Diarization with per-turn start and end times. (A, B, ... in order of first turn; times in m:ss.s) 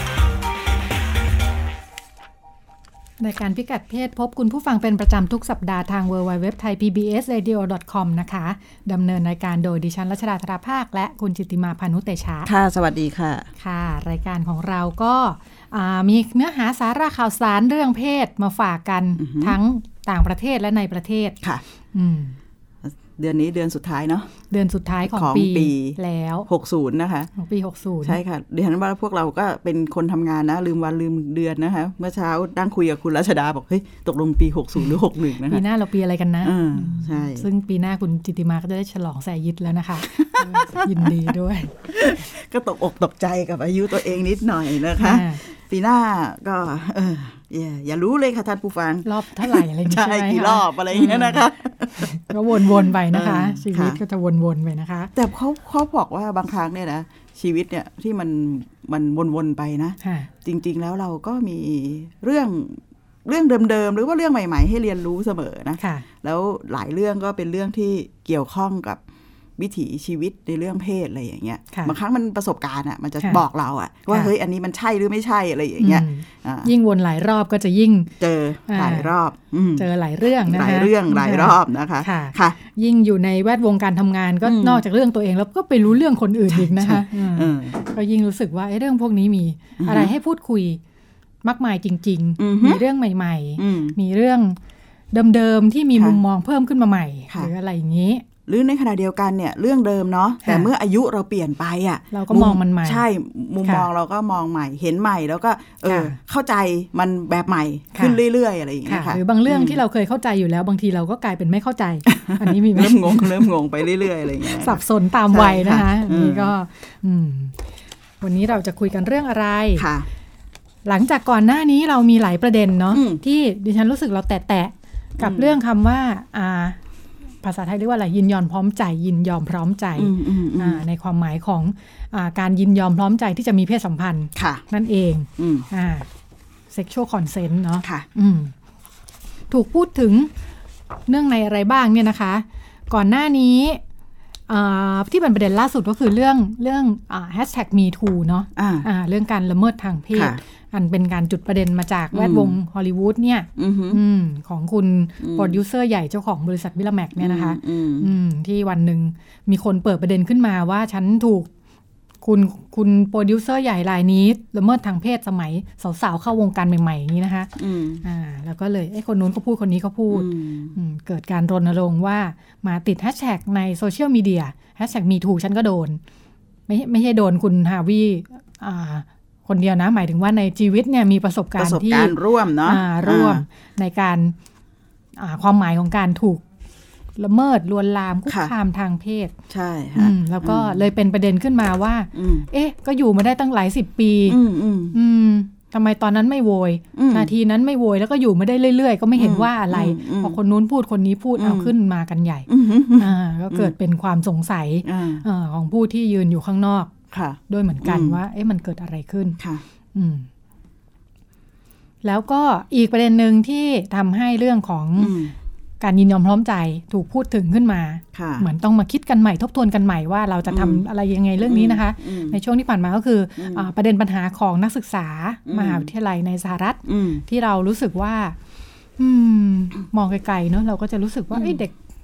0:03.2-0:12.5 A
0:12.5-0:13.5 B
0:13.6-0:21.4 A
0:19.2-0:19.6 B
0:21.9-0:22.4 A
0:22.8-0:24.3 B
0:24.5-0:26.5 A
0:25.1-0:27.3 B
0:27.4-0:28.2 A
0:28.0-0:35.6 B
0:35.4-0:41.9 A
0:36.4-0:37.5 B
0:40.0-0:41.4 B
0:41.9-0:54.0 B
0:45.0-0:45.4 A
0:49.0-0:51.4 A
0:52.0-0:55.1 A
0:55.1-1:09.0 B
1:00.0-1:00.3 A
1:05.8-1:06.1 A
1:09.6-1:16.7 B
1:15.8-1:18.1 A
1:18.2-1:19.9 B
1:18.7-1:19.1 A
1:19.8-1:30.8 A
1:20.4-1:22.6 B
1:24.4-1:24.8 B
1:26.5-1:27.8 B
1:29.8-1:30.1 B
1:31.4-1:34.6 A
1:32.4-1:32.8 B
1:33.6-1:34.0 B
1:35.1-1:38.2 A
1:36.0-1:36.2 B
1:38.5-1:49.8 B
1:40.4-1:40.7 A
1:42.1-1:43.0 A
1:43.6-1:43.9 A
1:45.9-1:46.2 A
1:47.9-1:48.2 A
1:48.9-1:53.5 A
1:52.1-1:56.5 B
1:54.4-1:57.6 A
1:58.2-1:59.9 A
1:59.8-2:00.1 B
2:00.9-2:06.8 A
2:02.9-2:03.2 B
2:05.2-2:05.6 B
2:07.4-2:16.1 A
2:10.0-2:10.8 B
2:14.4-2:14.6 B
2:15.4-2:15.7 B
2:16.7-2:18.5 A
2:19.5-2:20.3 A
2:21.1-2:23.8 A
2:24.5-2:41.5 A
2:28.6-2:28.9 B
2:30.1-2:30.4 B
2:32.1-2:32.6 B
2:33.6-2:34.0 B
2:35.2-2:35.6 B
2:37.2-2:38.1 B
2:42.2-2:47.5 A
2:47.6-2:48.0 B
2:48.0-2:56.0 A
2:50.1-2:50.8 B
2:56.7-3:04.3 A
3:01.6-3:03.4 B
3:05.2-3:06.4 A
3:07.2-3:09.3 A
3:08.3-3:08.5 B
3:09.5-3:10.9 B
3:09.9-3:14.4 A
3:12.1-3:12.5 B
3:14.3-3:15.0 B
3:14.9-3:26.9 A
3:17.0-3:17.3 B
3:19.2-3:20.4 B
3:21.4-3:21.7 B
3:22.5-3:23.7 B
3:24.8-3:25.2 B
3:27.1-3:28.2 B
3:27.5-3:29.4 A
3:29.4-3:29.6 B
3:29.9-3:30.3 A
3:32.0-3:35.2 A
3:35.0-3:35.3 B
3:35.8-3:48.4 A
3:38.1-3:38.4 B
3:40.5-3:40.8 B
3:41.4-3:42.4 B
3:43.4-3:43.7 B
3:45.5-3:45.9 B
3:46.8-3:47.2 B
3:49.0-3:51.7 A
3:51.3-3:51.6 B